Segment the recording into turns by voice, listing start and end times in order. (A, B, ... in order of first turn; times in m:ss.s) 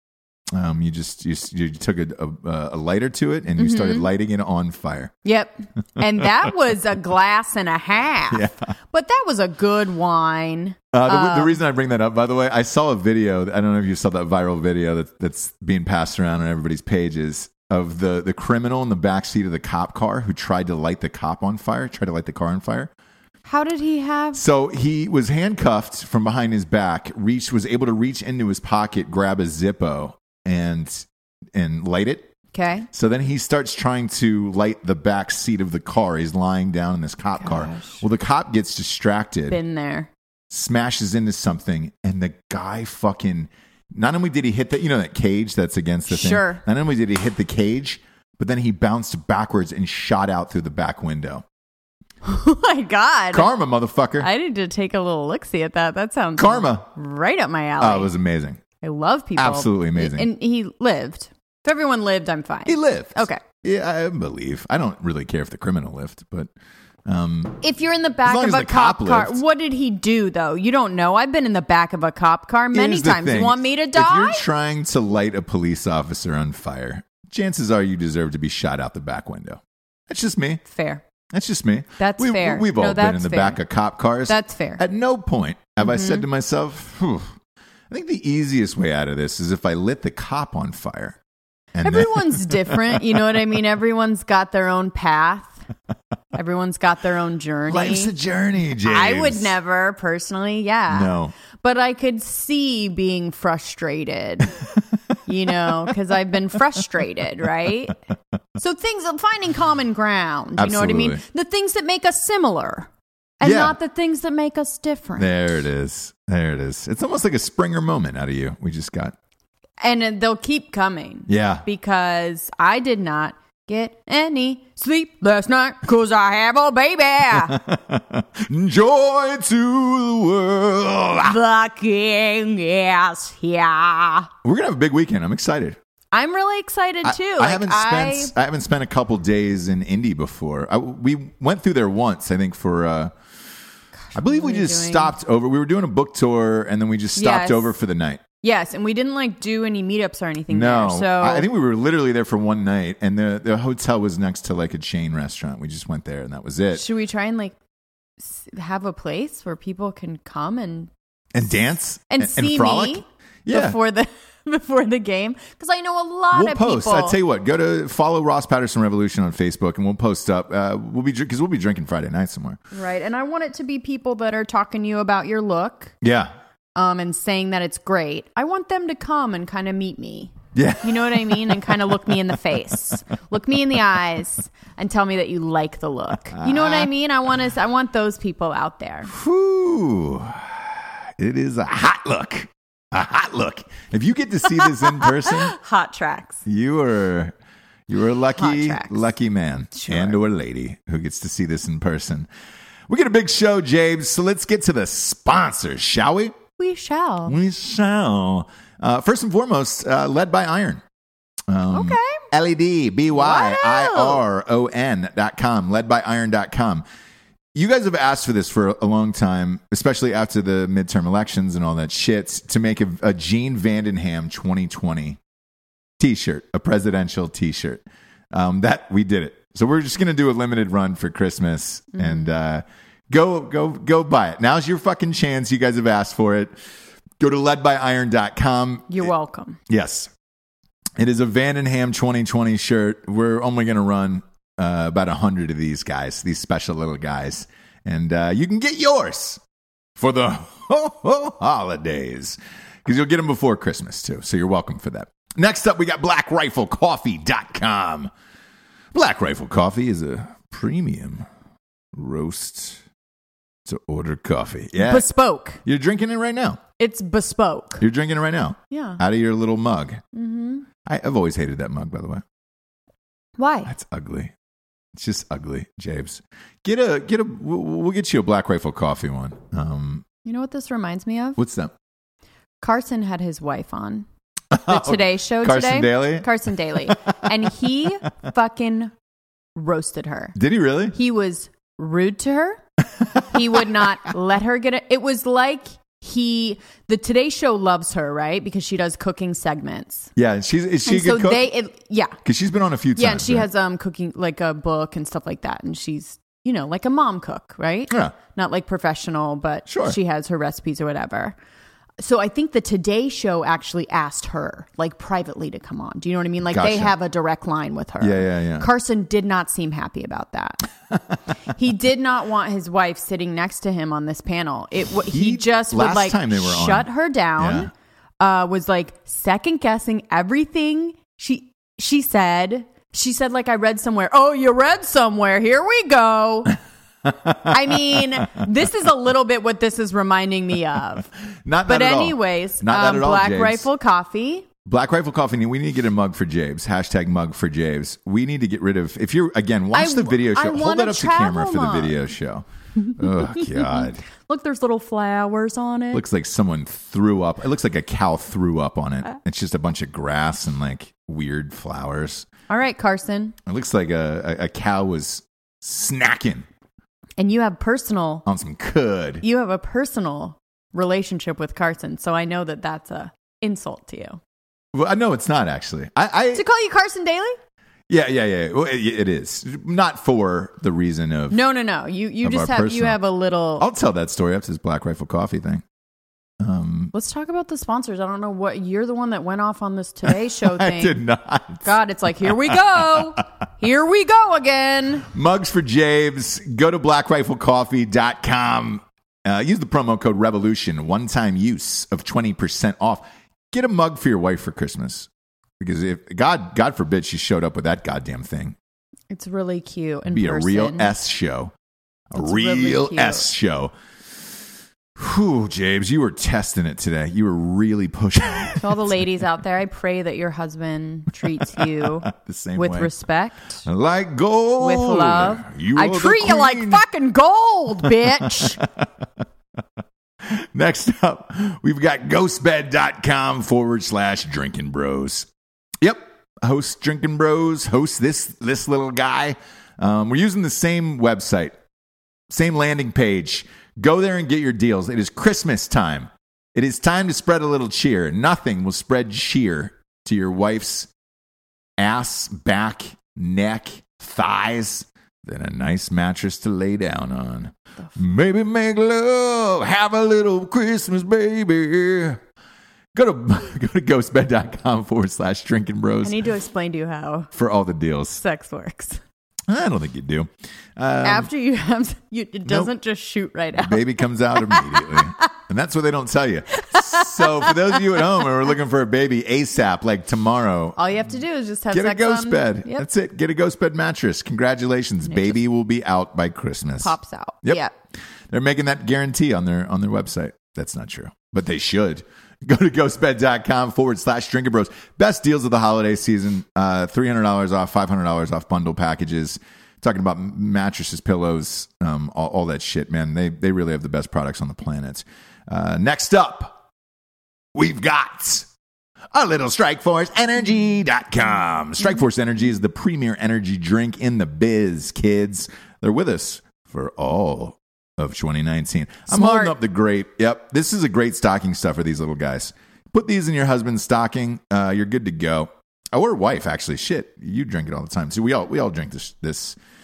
0:00.5-0:05.1 A
0:03.6-0:04.1 B
0:05.2-0:11.6 B
0:08.3-0:08.7 A
0:10.9-0:22.9 A
0:23.4-0:24.4 B
0:24.3-0:32.3 A
0:32.5-0:32.9 B
0:32.9-0:39.6 A
0:37.4-0:38.0 B
0:39.5-0:40.1 B
0:40.5-0:51.4 A
0:46.1-0:46.6 B
0:52.2-0:53.5 B
0:53.3-0:54.3 A
0:54.2-0:58.1 B
0:56.4-0:56.9 A
0:57.8-0:58.6 A
0:58.8-1:03.4 B
0:59.4-1:00.3 A
1:02.7-1:06.5 A
1:07.1-1:07.6 A
1:07.6-1:14.4 B
1:08.2-1:09.4 A
1:12.7-1:20.6 A
1:20.7-1:21.0 B
1:21.3-1:27.4 A
1:22.0-1:23.6 B
1:24.3-1:24.8 B
1:25.8-1:26.2 B
1:27.9-1:31.2 A
1:31.7-1:33.1 A
1:31.8-1:35.6 B
1:36.3-1:38.1 B
1:37.7-1:39.6 A
1:38.8-1:44.6 B
1:40.9-1:41.3 A
1:45.2-1:48.0 B
1:48.6-1:52.9 B
1:50.6-1:51.2 A
1:53.4-1:55.3 B
1:53.4-1:53.7 A
1:55.2-1:59.1 A
1:59.8-2:07.6 B
2:01.3-2:01.6 A
2:07.3-2:11.4 A
2:11.2-2:14.3 B
2:14.4-2:15.8 A
2:16.1-2:18.3 B
2:17.0-2:23.1 A
2:24.1-2:25.1 B
2:24.1-2:28.2 A
2:27.2-2:27.7 B
2:28.4-2:31.4 B
2:30.5-2:36.8 A
2:36.7-2:37.6 B
2:38.2-2:40.9 B
2:41.3-2:43.8 A
2:42.1-2:47.2 B
2:46.3-2:52.6 A
2:52.7-2:55.9 B
2:56.0-2:56.3 A
2:56.8-3:09.1 B
3:00.5-3:02.1 A
3:06.3-3:06.9 A
3:09.0-3:15.5 A
3:14.6-3:16.4 B
3:16.4-3:17.3 A
3:17.9-3:22.3 A
3:18.3-3:19.0 B
3:19.8-3:20.2 B
3:22.9-3:26.4 A
3:26.6-3:27.3 B
3:27.2-3:30.8 A
3:31.5-3:36.8 A
3:31.7-3:32.2 B
3:33.1-3:34.2 B
3:37.5-3:45.2 A
3:46.0-3:56.5 A
3:51.9-3:52.3 B
3:57.2-3:59.1 A
3:58.9-3:59.6 B
3:59.7-4:00.1 A
4:01.0-4:09.4 A
4:10.0-4:18.1 A
4:18.9-4:21.2 A
4:21.9-4:22.8 A
4:23.6-4:25.1 A
4:24.8-4:25.6 B
4:25.6-4:26.6 A
4:26.8-4:27.8 B
4:27.8-4:30.0 A
4:28.7-4:29.0 B
4:30.1-4:30.7 B
4:30.8-4:32.2 A
4:33.4-4:33.7 B
4:33.6-4:34.3 A
4:34.9-4:40.0 A
4:40.2-4:41.4 B
4:41.4-4:41.7 A
4:42.6-4:44.0 B
4:44.5-4:47.2 A
4:44.7-4:48.9 B
4:49.5-4:50.3 B
4:50.3-4:51.0 A
4:50.9-4:52.6 B
4:53.2-5:00.1 B
5:00.2-5:01.5 A
5:00.8-5:02.2 B
5:02.2-5:03.5 A
5:03.0-5:11.4 B
5:07.9-5:08.2 A
5:09.7-5:10.0 A
5:12.0-5:20.6 B
5:16.5-5:16.9 A
5:18.0-5:18.7 A
5:21.5-5:36.6 B
5:25.1-5:27.7 A
5:37.1-5:37.5 A
5:37.4-5:41.1 B
5:41.4-5:43.7 A
5:41.7-5:44.5 B
5:44.6-5:54.0 A
5:49.7-5:52.0 B
5:53.0-5:56.0 B
5:55.9-6:02.2 A
6:02.5-6:03.4 B
6:03.4-6:06.4 A
6:07.2-6:08.2 B
6:08.2-6:09.2 A
6:09.2-6:14.2 B
6:14.7-6:16.4 A
6:16.3-6:17.4 B
6:17.9-6:21.4 A
6:21.3-6:23.6 B
6:22.2-6:23.0 A
6:23.6-6:25.6 A
6:26.4-6:26.9 A
6:26.9-6:31.0 B
6:30.1-6:33.0 A
6:31.6-6:35.1 B
6:35.1-6:45.1 A
6:45.6-6:48.6 A
6:49.1-6:50.9 B
6:50.1-6:51.5 A
6:52.1-6:53.7 A
6:52.1-6:53.3 B
6:55.0-6:59.0 A
6:58.6-7:03.6 B
7:01.4-7:02.9 A
7:03.6-7:06.8 A
7:04.6-7:08.6 B
7:08.1-7:08.8 A
7:10.2-7:15.3 A
7:15.8-7:21.5 A
7:22.3-7:30.9 A
7:31.8-7:42.2 A
7:42.9-7:46.2 A
7:46.0-7:47.3 B
7:47.3-7:48.2 A
7:48.2-7:49.0 B
7:49.5-7:51.3 A
7:51.0-7:55.3 B
7:52.4-7:52.7 A
7:53.6-8:00.8 A
7:56.6-7:58.1 B
8:00.8-8:02.8 B
8:01.7-8:07.6 A
8:05.0-8:05.4 B
8:06.8-8:07.7 B
8:08.3-8:26.6 A
8:27.5-8:28.5 A
8:29.1-8:49.6 A
8:39.1-8:39.6 B